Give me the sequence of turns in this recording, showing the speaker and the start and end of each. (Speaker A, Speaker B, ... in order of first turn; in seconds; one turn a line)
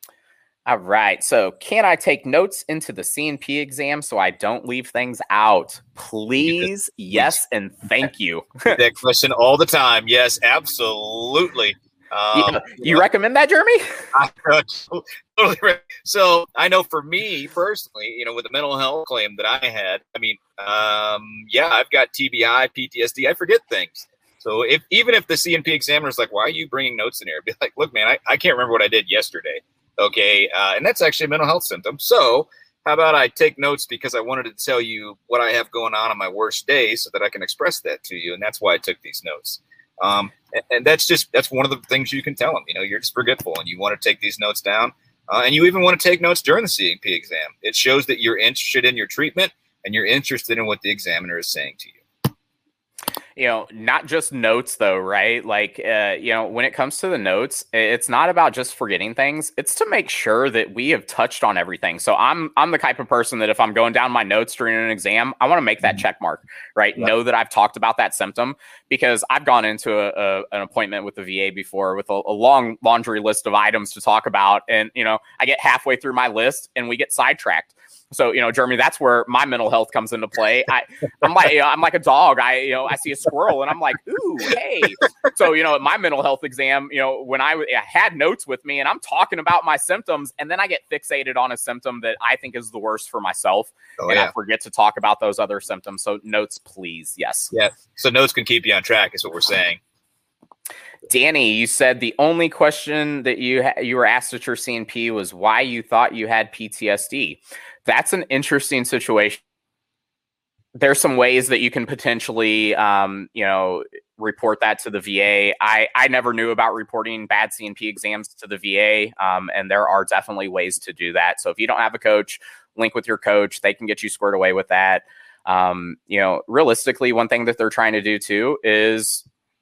Speaker A: 0.7-8.8
Speaker B: 6.4-7.3
Speaker B: 8.7-13.0
Speaker A: 12.3-13.8
Speaker B: 14.1-52.0
Speaker A: 53.4-97.5
Speaker B: 94.0-94.3
Speaker B: 97.5-99.8
Speaker A: 101.1-109.4
Speaker A: 110.8-129.2